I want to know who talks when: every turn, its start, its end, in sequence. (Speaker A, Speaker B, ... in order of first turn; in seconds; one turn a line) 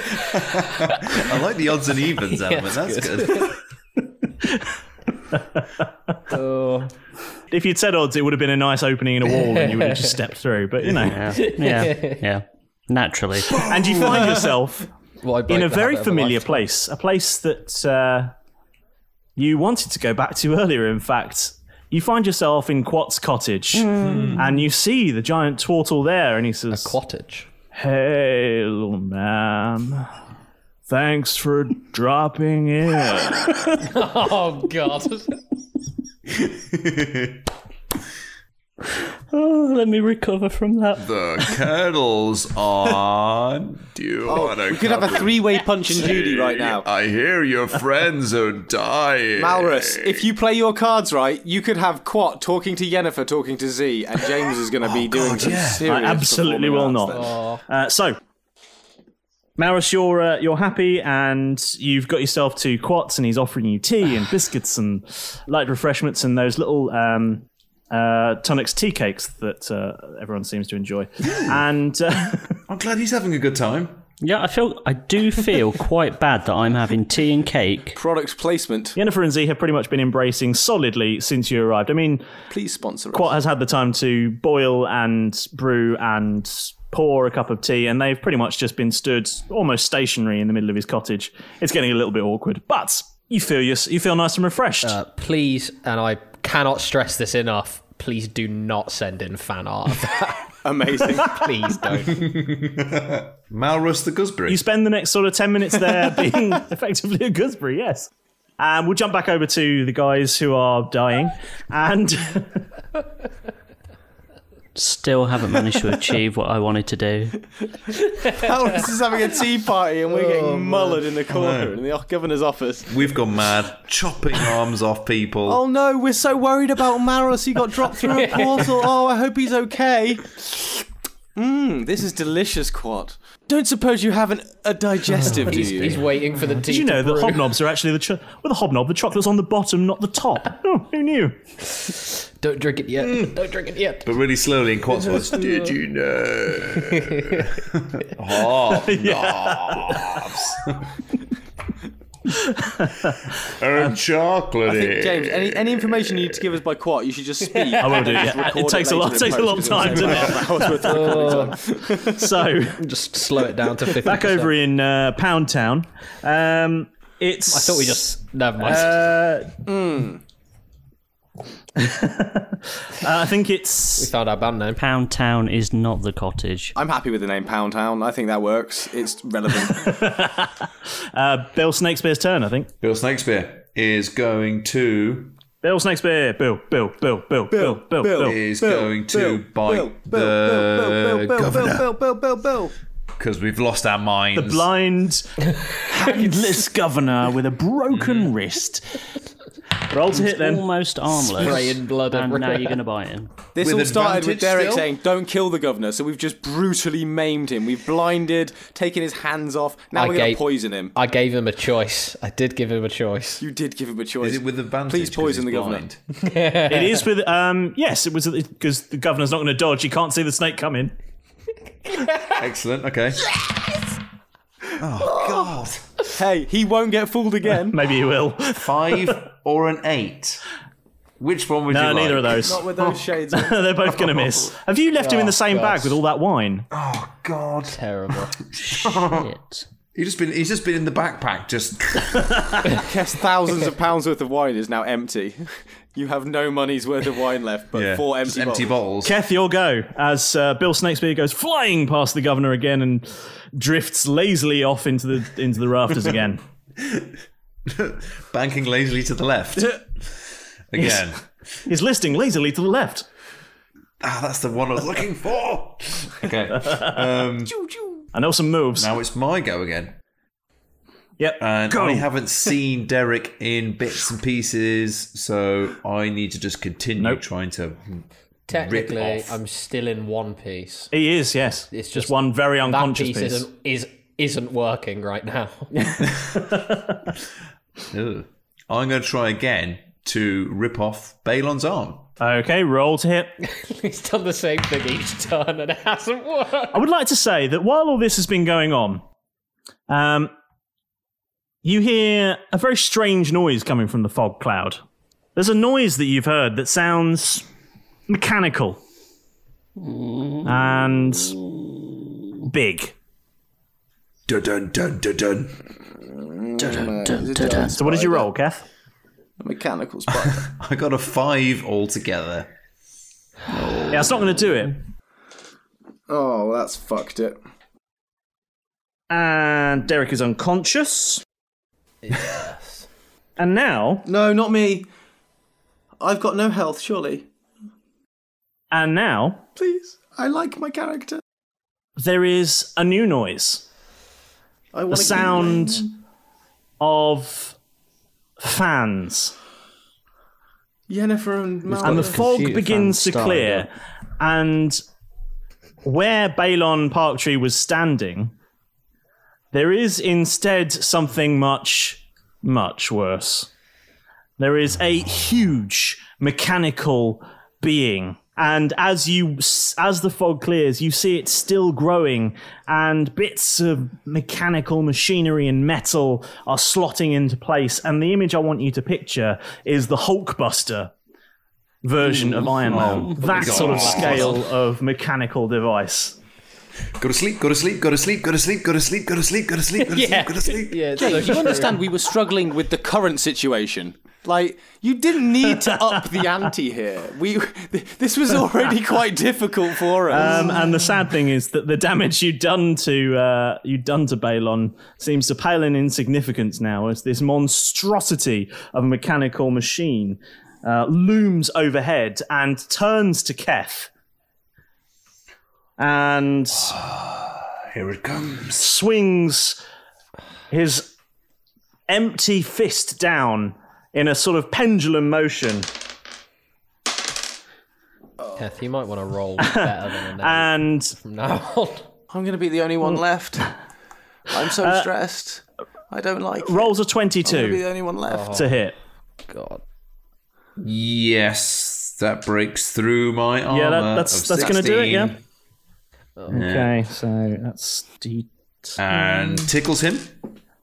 Speaker A: 0.2-3.5
Speaker B: 0.8-1.2
Speaker B: 2.3-3.5
Speaker B: 6.3-6.9
Speaker C: 7.5-11.2
Speaker B: 9.4-10.1
Speaker D: 11.0-13.7
Speaker B: 11.3-12.2
Speaker C: 13.5-14.9
Speaker B: 15.2-16.6
Speaker C: 15.5-18.3
Speaker C: 19.4-27.0
Speaker A: 23.9-24.4
Speaker B: 26.7-27.5
Speaker C: 27.7-30.1
Speaker C: 30.9-33.8
Speaker B: 33.8-35.4
Speaker A: 36.3-37.5
Speaker D: 38.9-41.1
Speaker A: 41.0-50.3
Speaker E: 44.3-46.9
Speaker E: 49.4-57.3
Speaker A: 54.8-55.9
Speaker C: 55.8-58.2
Speaker B: 57.1-57.6
Speaker C: 59.6-72.6
Speaker A: 72.7-74.0
Speaker D: 74.2-78.0
Speaker E: 78.0-79.0
Speaker C: 79.0-82.2
Speaker E: 82.5-83.3
Speaker C: 83.1-95.0
Speaker B: 94.8-100.5
Speaker E: 100.6-101.5
Speaker B: 101.0-102.2
Speaker A: 102.1-104.6
Speaker C: 104.5-112.7
Speaker D: 114.8-117.4
Speaker E: 118.2-123.0
Speaker B: 120.1-121.0
Speaker A: 121.3-121.8
Speaker A: 122.9-125.6
Speaker E: 125.5-130.8
Speaker B: 128.1-128.5
Speaker E: 131.4-136.0
Speaker B: 135.2-137.5
Speaker C: 136.6-141.4
Speaker B: 142.4-144.1
Speaker A: 143.0-143.3
Speaker A: 144.0-150.9
Speaker B: 146.9-147.5
Speaker C: 148.7-150.3
Speaker C: 152.3-153.2
Speaker A: 153.4-156.5
Speaker E: 154.7-162.3
Speaker B: 157.5-158.0
Speaker C: 157.8-161.4
Speaker A: 159.9-160.4
Speaker B: 160.8-161.6
Speaker C: 162.0-162.8
Speaker B: 162.7-164.5
Speaker C: 164.0-168.1
Speaker B: 167.5-169.1
Speaker C: 168.6-169.6
Speaker E: 169.7-170.2
Speaker C: 171.8-174.1
Speaker B: 174.0-174.8
Speaker D: 174.8-176.7
Speaker E: 176.8-180.1
Speaker C: 179.7-180.6
Speaker C: 181.2-182.7
Speaker A: 182.8-185.4
Speaker C: 185.6-188.4
Speaker E: 187.5-192.7
Speaker A: 188.2-191.9
Speaker A: 193.2-194.7
Speaker C: 194.3-199.0
Speaker A: 197.9-198.3
Speaker C: 199.9-200.7
Speaker D: 200.1-203.3
Speaker B: 201.4-202.8
Speaker E: 203.5-210.9
Speaker A: 203.6-204.9
Speaker B: 209.9-213.4
Speaker E: 213.4-215.9
Speaker A: 214.2-216.0
Speaker B: 216.2-217.0
Speaker C: 216.7-220.9
Speaker A: 222.2-223.3
Speaker A: 224.8-225.9
Speaker E: 226.2-227.8
Speaker C: 227.7-229.2
Speaker A: 228.6-230.4
Speaker A: 231.2-232.8
Speaker C: 231.7-236.7
Speaker E: 232.4-233.6
Speaker B: 235.0-236.0
Speaker A: 236.7-237.8
Speaker B: 237.7-238.4
Speaker A: 238.4-239.3
Speaker D: 238.8-239.7
Speaker A: 239.9-242.2
Speaker E: 242.7-248.7
Speaker A: 247.8-249.2
Speaker C: 249.0-256.4
Speaker A: 256.8-257.1
Speaker A: 257.7-259.9
Speaker A: 260.7-261.2
Speaker C: 260.8-261.1
Speaker C: 261.7-263.1
Speaker A: 264.0-267.6
Speaker E: 267.6-268.1
Speaker C: 268.1-268.9
Speaker A: 268.8-269.9
Speaker C: 271.2-272.3
Speaker A: 271.4-279.4
Speaker B: 278.5-280.9
Speaker C: 280.9-283.5
Speaker B: 281.7-286.0
Speaker C: 286.6-286.9
Speaker A: 287.9-292.1
Speaker C: 292.2-293.3
Speaker B: 293.4-296.8
Speaker C: 296.7-299.0
Speaker C: 299.9-300.3
Speaker C: 301.6-304.8
Speaker C: 305.4-307.5
Speaker C: 308.1-308.8
Speaker D: 309.8-310.5
Speaker C: 310.4-311.4
Speaker C: 312.4-312.9
Speaker A: 314.3-315.6
Speaker E: 316.1-318.3
Speaker D: 316.6-317.7
Speaker C: 317.8-318.6
Speaker E: 319.4-320.5
Speaker A: 320.1-322.5
Speaker A: 323.5-324.3
Speaker C: 323.9-324.8
Speaker E: 326.1-327.4
Speaker C: 329.1-331.2
Speaker B: 332.0-332.9
Speaker C: 333.4-334.1
Speaker E: 334.1-334.9
Speaker E: 336.0-337.3
Speaker C: 338.7-339.5
Speaker E: 339.6-341.2
Speaker C: 342.0-343.6
Speaker E: 344.7-345.9
Speaker C: 344.9-345.9
Speaker C: 346.8-347.6
Speaker C: 348.4-349.4
Speaker E: 350.9-352.3
Speaker B: 351.7-353.7
Speaker C: 351.8-354.8
Speaker C: 355.8-358.3
Speaker C: 359.5-363.5
Speaker C: 364.4-380.9
Speaker C: 381.8-386.2
Speaker A: 382.6-384.5
Speaker A: 387.0-391.3
Speaker B: 389.8-391.9
Speaker E: 391.0-400.6
Speaker C: 395.5-396.4
Speaker C: 400.1-413.9
Speaker C: 415.8-416.8
Speaker A: 416.6-418.6
Speaker C: 418.4-419.6
Speaker C: 420.5-420.9
Speaker C: 421.9-425.7
Speaker B: 428.4-431.9
Speaker C: 429.4-430.9
Speaker E: 432.1-433.5
Speaker E: 434.3-438.3
Speaker C: 434.6-434.9
Speaker C: 436.4-437.6
Speaker B: 438.1-438.5
Speaker C: 438.3-438.8
Speaker B: 439.3-439.6
Speaker A: 440.6-445.2
Speaker C: 443.5-445.1
Speaker B: 446.2-446.4
Speaker A: 446.3-446.8
Speaker C: 446.3-449.5
Speaker A: 448.8-450.2